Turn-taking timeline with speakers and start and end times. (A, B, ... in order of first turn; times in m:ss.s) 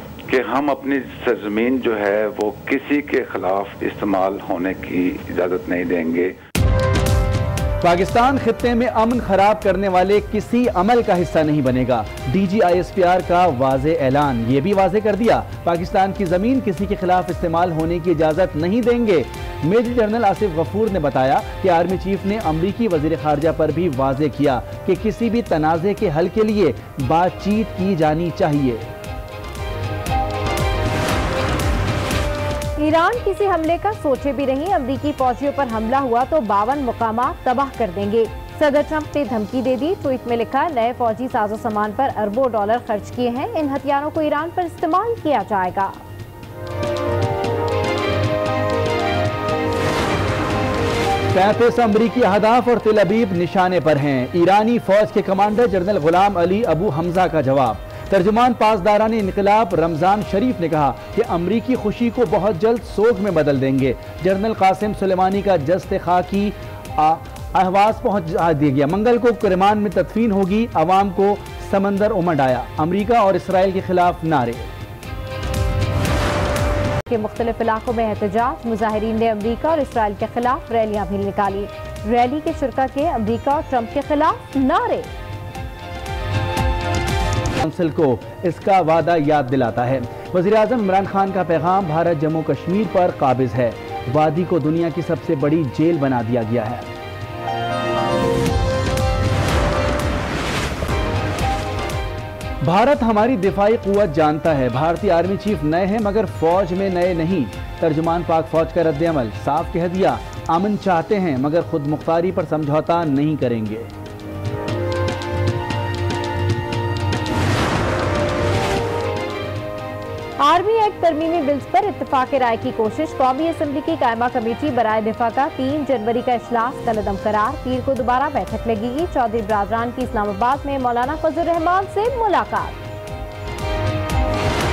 0:00.3-0:06.4 A
0:07.8-0:28.8 B
0:32.8-0:46.0 C
0:51.3-1:14.7 B
1:17.1-1:25.1 C
1:27.6-1:36.8 B
1:42.6-1:53.9 B
2:00.4-2:12.8 C